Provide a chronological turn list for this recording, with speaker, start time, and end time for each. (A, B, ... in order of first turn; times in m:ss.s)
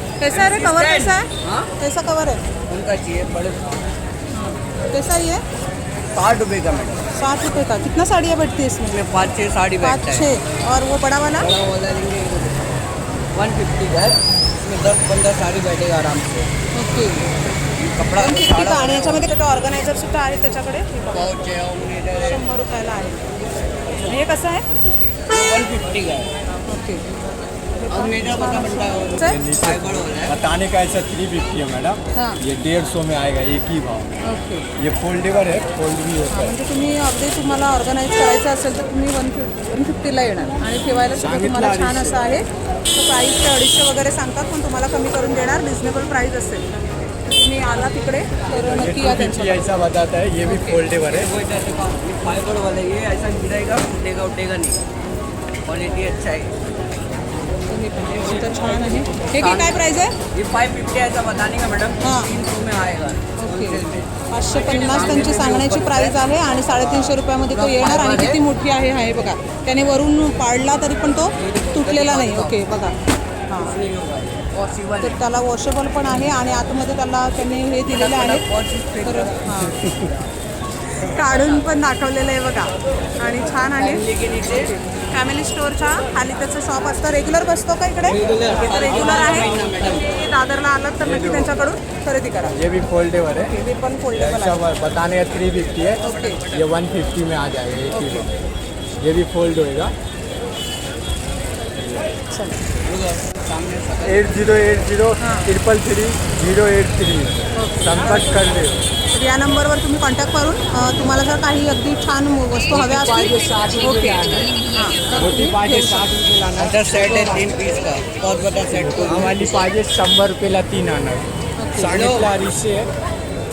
0:00.2-0:02.4 A
0:00.4-0:01.7 B
0:02.7-0:03.7 B
0:04.9-0:05.4 A
0:06.1-0:07.0 B
0:07.1-0:11.6 A
0:08.9-0:10.2 B
0:11.4-0:12.6 B
0:13.3-0:16.3 B
0:16.7-0:17.3 A
0:18.0-0:19.1 B
0:18.0-0:21.6 A
0:21.2-0:22.2 B
0:22.1-0:23.4 A
0:24.0-0:24.6 A
0:25.3-0:26.3 B
0:26.7-0:27.0 A
0:27.8-0:29.5 A
0:28.0-0:30.3 B
0:29.2-0:34.2 C
0:34.2-0:34.7 A
0:34.8-0:36.6 C
0:36.3-0:46.6 A
0:41.2-0:42.2 C
0:47.3-0:49.6 A
0:48.6-0:51.3 C
0:50.4-0:50.9 A
0:51.1-0:54.8 B
0:55.6-0:56.5 B
0:57.7-1:00.1 A
1:00.4-1:03.2 B
1:02.0-1:02.4 A
1:03.4-1:13.0 A
1:05.0-1:06.1 B
1:07.6-1:08.3 B
1:11.5-1:12.3 B
1:13.5-1:13.8 A
1:13.7-1:15.1 B
1:15.0-1:18.5 A
1:18.0-1:19.1 B
1:19.0-1:19.8 A
1:21.0-1:32.5 A
1:23.9-1:24.4 B
1:28.3-1:29.8 B
1:31.0-1:31.6 C
1:32.5-1:33.6 C
1:33.4-1:34.6 A
1:34.1-1:38.3 C
1:36.0-1:36.5 A
1:37.9-1:38.3 A
1:39.0-1:39.9 C
1:42.3-1:42.6 A
1:42.8-1:44.3 B
1:44.0-1:48.8 C
1:45.2-1:45.5 A
1:47.6-1:48.4 A
1:49.1-1:56.0 A
1:52.7-1:54.5 C
1:55.1-1:57.6 C
1:56.5-1:59.6 B
1:58.7-2:02.9 C
2:01.6-2:02.0 A
2:02.0-2:02.2 B